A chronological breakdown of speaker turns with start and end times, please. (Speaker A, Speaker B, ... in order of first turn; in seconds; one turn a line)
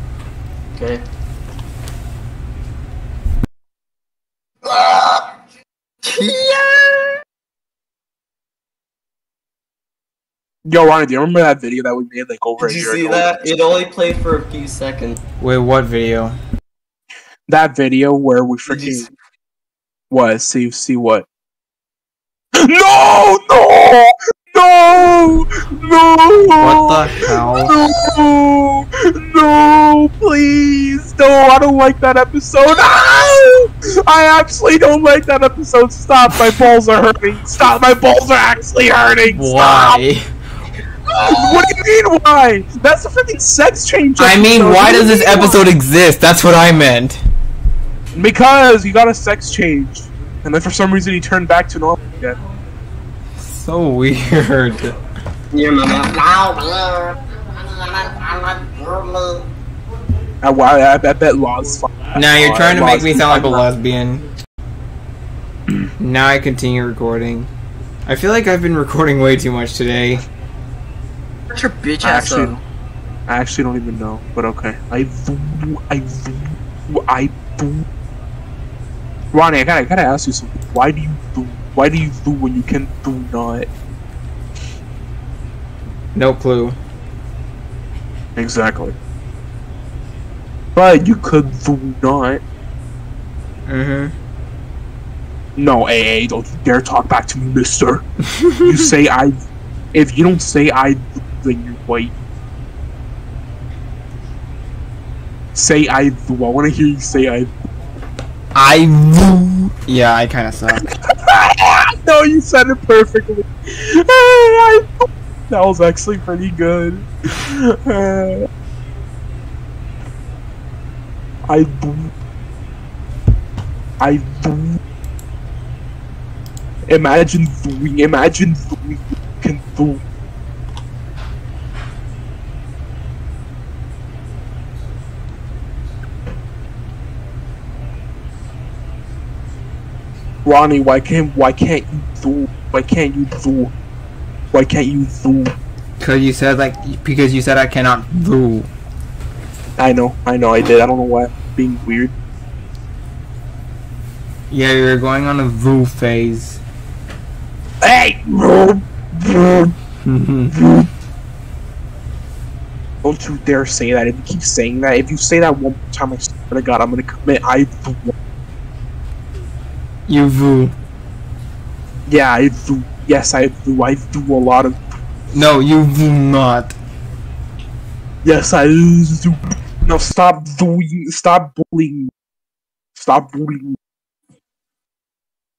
Speaker A: 0.8-1.0
Speaker A: 4.6-5.3
Speaker A: 6.0-7.1
Speaker B: 10.6-13.4
Speaker A: 12.6-15.2
Speaker C: 15.4-16.4
Speaker B: 17.5-19.1
Speaker A: 18.7-19.1
Speaker B: 20.1-21.2
Speaker B: 22.6-40.0
Speaker C: 26.5-27.7
Speaker C: 39.3-40.2
Speaker B: 41.2-45.6
Speaker C: 44.2-47.2
Speaker B: 48.1-52.4
Speaker C: 53.4-54.9
Speaker A: 55.5-59.5
Speaker B: 60.4-63.7
Speaker C: 62.1-64.2
Speaker C: 66.0-67.5
Speaker C: 68.0-70.2
Speaker A: 71.5-72.6
Speaker B: 72.0-72.6
Speaker B: 73.3-77.8
Speaker B: 79.3-83.7
Speaker C: 86.1-86.8
Speaker B: 88.3-88.9
Speaker B: 90.7-92.4
Speaker C: 93.7-94.1
Speaker B: 95.5-98.0
Speaker C: 98.4-98.6
Speaker B: 98.6-99.4
Speaker B: 99.9-102.1
Speaker B: 105.5-107.5
Speaker C: 108.5-110.9
Speaker B: 111.1-118.5
Speaker B: 121.5-122.1
Speaker B: 124.0-124.8
Speaker B: 126.9-130.0
Speaker B: 140.4-143.7
Speaker B: 144.5-145.5
Speaker C: 146.0-148.7
Speaker B: 149.8-152.1
Speaker C: 154.5-156.6
Speaker B: 157.8-159.7
Speaker C: 160.0-160.5
Speaker B: 160.5-160.9
Speaker B: 163.0-168.1
Speaker C: 170.1-170.7
Speaker B: 172.1-174.8
Speaker C: 175.3-176.8
Speaker B: 178.2-182.1
Speaker B: 182.9-183.8